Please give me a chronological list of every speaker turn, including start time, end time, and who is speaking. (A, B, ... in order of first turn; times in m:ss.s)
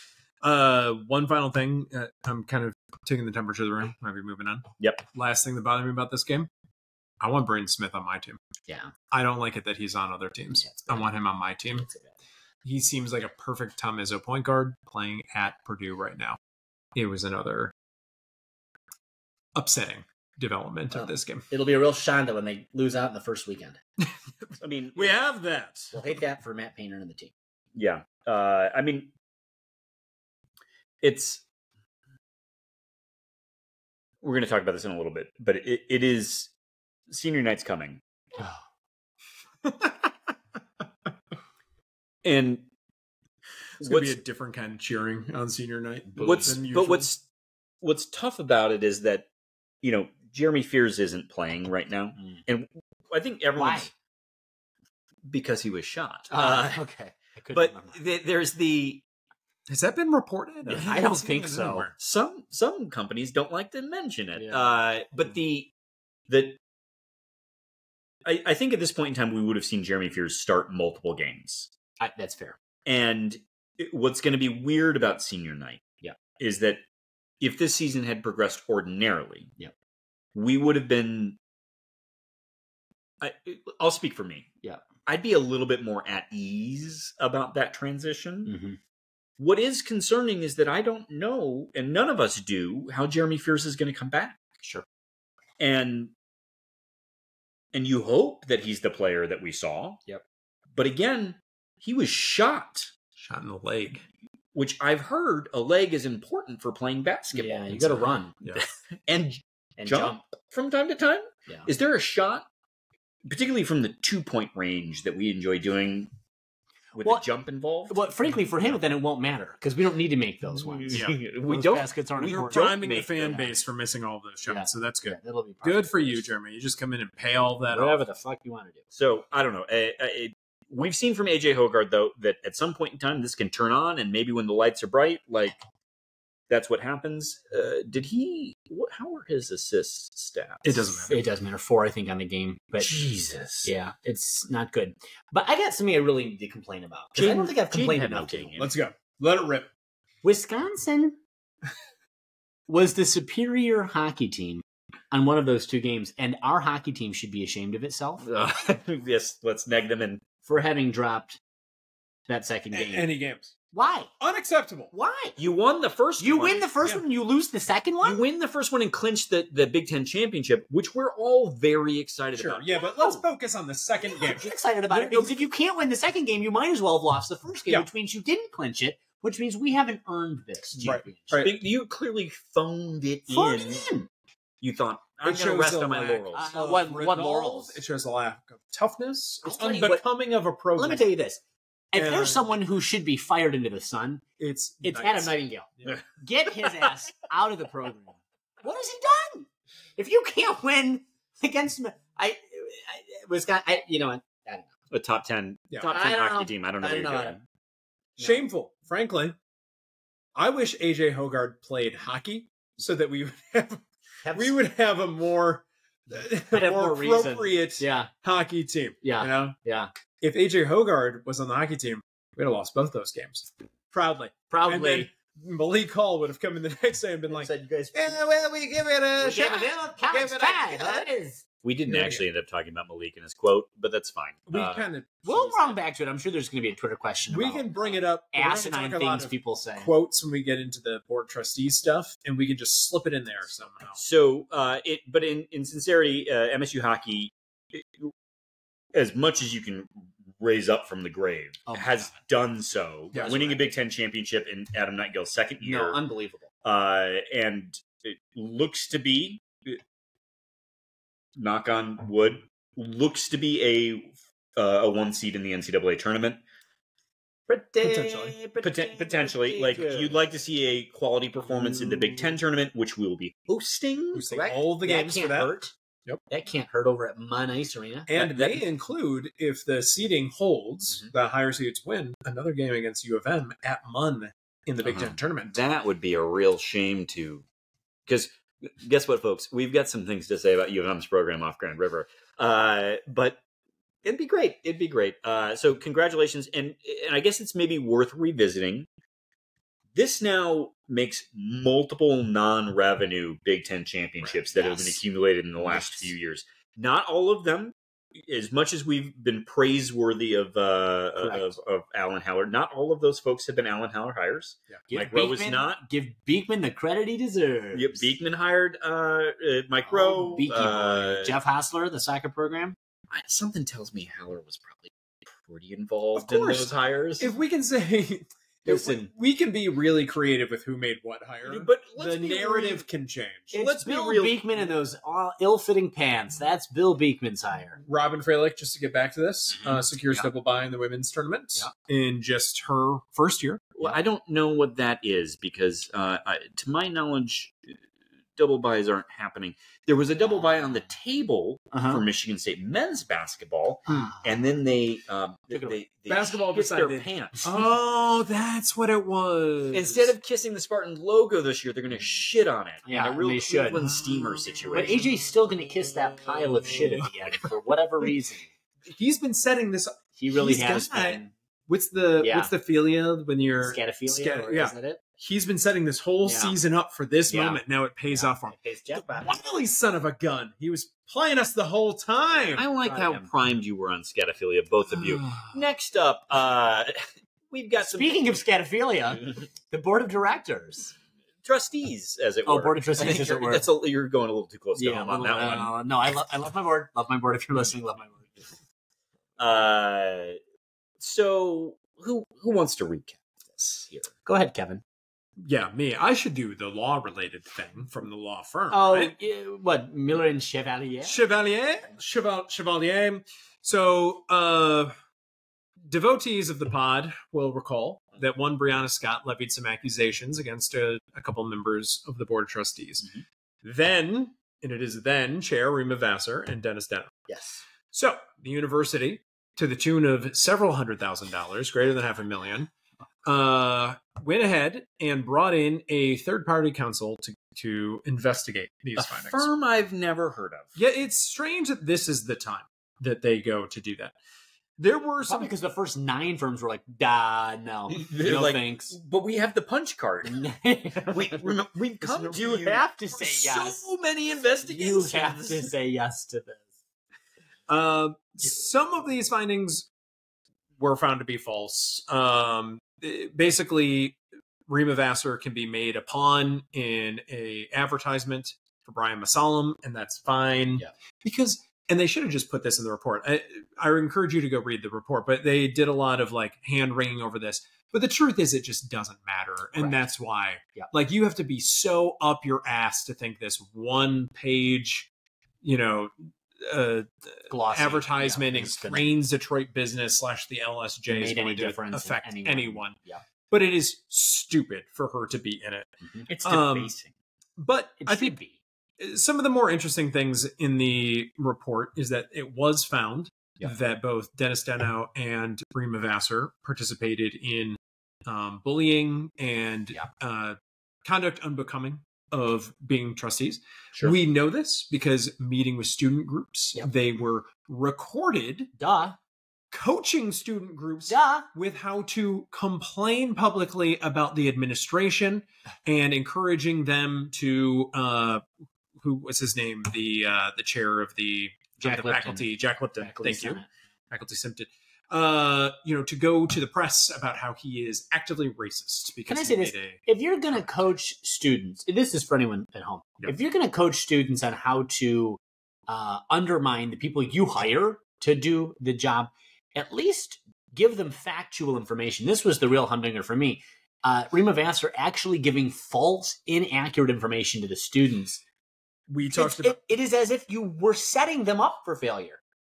0:00.4-0:06.5 A
0:04.8-0:05.0 B
0:07.2-0:08.4 A
0:08.7-0:08.9 C
0:09.1-0:11.9 A
0:10.5-0:11.0 C
0:11.8-0:12.1 C
0:12.6-0:16.4 A
0:16.9-0:17.7 A
0:19.5-0:21.4 A
0:20.9-0:23.8 C
0:24.0-0:25.9 A
0:24.6-0:25.2 B
0:25.9-0:27.3 C
0:27.7-0:29.1 B
0:31.0-0:31.4 B
0:34.2-0:36.5 B
0:37.1-0:38.0 B
0:39.6-0:40.3 A
0:42.2-0:42.7 B
0:43.8-0:47.1 A
0:43.8-0:44.2 B
0:46.1-0:46.5 C
0:46.2-0:47.2 B
0:47.8-0:49.3 B
0:49.8-0:53.9 B
0:53.6-0:53.9 C
0:55.2-0:56.8 B
0:56.3-0:58.0 C
0:57.5-0:59.0 B
0:59.7-1:01.9 A
1:00.7-1:01.9 C
1:02.0-1:05.7 B
1:04.3-1:04.8 C
1:06.3-1:06.6 B
1:08.2-1:11.7 B
1:12.0-1:12.6 C
1:12.8-1:15.9 B
1:16.4-1:16.8 B
1:17.4-1:19.5 B
1:20.3-1:21.4 B
1:23.2-1:24.5 B
1:25.0-1:28.5 B
1:28.4-1:28.8 C
1:29.4-1:34.4 B
1:35.6-1:36.1 B
1:37.7-1:40.0 B
1:40.7-1:42.9 B
1:43.2-1:44.0 A
1:44.5-1:47.8 B
1:47.3-1:48.3 C
1:47.7-1:48.6 A
1:48.6-1:52.4 B
1:49.8-1:50.2 C
1:53.2-1:56.1 B
1:56.9-1:58.1 B
1:57.9-2:03.5 C
2:00.5-2:03.4 B
2:00.9-2:01.2 A
2:02.2-2:08.0 A
2:04.5-2:06.2 C
2:07.7-2:08.8 C
2:08.9-2:15.6 B
2:16.5-2:21.1 B
2:20.6-2:21.2 A
2:21.1-2:23.0 C
2:22.8-2:23.7 B
2:23.6-2:28.6 C
2:27.2-2:28.7 B
2:28.6-2:29.7 A
2:30.2-2:31.2 C
2:32.7-2:38.2 C
2:38.2-2:40.2 B
2:40.4-2:41.4 C
2:42.3-2:43.1 C
2:42.7-2:43.5 A
2:43.7-2:44.1 C
2:44.2-2:44.9 A
2:44.9-2:45.3 C
2:45.4-2:46.7 B
2:46.2-2:48.2 C
2:48.0-2:52.7 B
2:52.3-2:55.4 A
2:54.1-3:01.4 C
3:00.8-3:01.5 A
3:00.8-3:03.8 B
3:03.3-3:04.1 C
3:04.6-3:06.5 B
3:05.2-3:11.0 A
3:06.3-3:07.8 C
3:09.4-3:10.0 C
3:10.7-3:14.2 C
3:11.9-3:12.4 A
3:14.4-3:16.0 A
3:14.8-3:24.7 C
3:24.9-3:27.4 B
3:25.8-3:27.4 C
3:28.2-3:28.4 C
3:28.2-3:29.4 A
3:30.4-3:39.5 A
3:34.2-3:34.5 C
3:36.5-3:38.1 C
3:39.0-3:39.9 C
3:40.2-3:51.1 A
3:44.5-3:45.1 C
3:47.3-3:48.2 C
3:49.2-3:51.4 C
3:51.6-3:54.9 B
3:51.9-3:52.2 A
3:54.5-3:55.7 A
3:55.2-3:59.9 C
3:57.3-4:04.0 A
4:04.0-4:08.1 B
4:08.9-4:16.0 B
4:11.6-4:12.1 C
4:13.1-4:13.6 C
4:15.6-4:16.5 C
4:16.6-4:19.8 B
4:21.4-4:26.4 B
4:27.5-4:30.2 C
4:27.8-4:28.4 A
4:28.6-4:34.3 B
4:34.1-4:36.2 A
4:34.3-4:35.7 C
4:36.3-4:38.1 C
4:38.1-4:45.6 A
4:38.2-4:38.6 B
4:44.8-4:47.4 B
4:48.1-4:53.4 B
4:54.0-4:58.9 B
4:59.9-5:15.8 B
5:04.3-5:05.0 C
5:05.6-5:06.1 C
5:11.2-5:11.5 C
5:14.9-5:18.1 C
5:17.7-5:21.4 B
5:19.8-5:22.8 C
5:23.1-5:27.3 B
5:26.2-5:33.6 A
5:28.6-5:29.1 B
5:31.4-5:32.8 B
5:33.5-5:34.4 B
5:33.5-5:37.8 C
5:37.8-5:43.7 A
5:39.6-5:40.3 C
5:43.8-5:47.8 B
5:48.4-5:57.4 B
5:51.7-5:52.0 C
5:53.9-5:54.4 C
5:55.5-5:55.8 C
5:56.1-6:00.1 A
5:59.7-6:05.0 B
6:02.8-6:03.8 C
6:04.7-6:08.5 C
6:06.8-6:07.1 A
6:08.9-6:22.6 A
6:10.2-6:11.3 C
6:12.2-6:12.5 C
6:13.6-6:15.0 C
6:16.2-6:16.5 C
6:17.3-6:19.4 C
6:22.3-6:23.3 C
6:22.6-6:28.2 B
6:24.9-6:25.6 A
6:27.8-6:30.9 C
6:31.4-6:35.7 B
6:32.4-6:33.7 C
6:34.8-6:38.5 C
6:39.4-6:40.4 B
6:41.0-6:44.1 B
6:44.2-6:44.8 C
6:45.4-6:49.1 A
6:48.7-6:51.2 C
6:51.0-6:54.9 A
6:55.8-7:03.1 A
7:03.6-7:07.2 A
7:07.3-7:07.6 C
7:07.9-7:12.7 A
7:13.2-7:19.5 A
7:19.0-7:20.8 B
7:20.8-7:24.2 A
7:24.8-7:25.5 A
7:25.2-7:29.0 C
7:27.9-7:30.4 B
7:30.2-7:33.8 C
7:31.1-7:35.7 B
7:34.6-7:36.6 C
7:37.7-7:39.9 A
7:40.8-8:05.1 A
8:05.6-8:13.0 A
8:07.5-8:09.1 C
8:11.1-8:13.2 C
8:13.5-8:15.9 A
8:16.3-8:17.1 B
8:16.4-8:16.9 A
8:17.6-8:18.4 A
8:18.0-8:18.6 C
8:19.0-8:38.7 A
8:38.8-8:39.2 C
8:39.7-8:48.5 A
8:41.1-8:41.5 C
8:49.0-9:00.0 A
8:51.8-8:53.7 C
8:59.3-9:18.4 C
9:19.1-9:19.8 A
9:19.3-9:22.4 C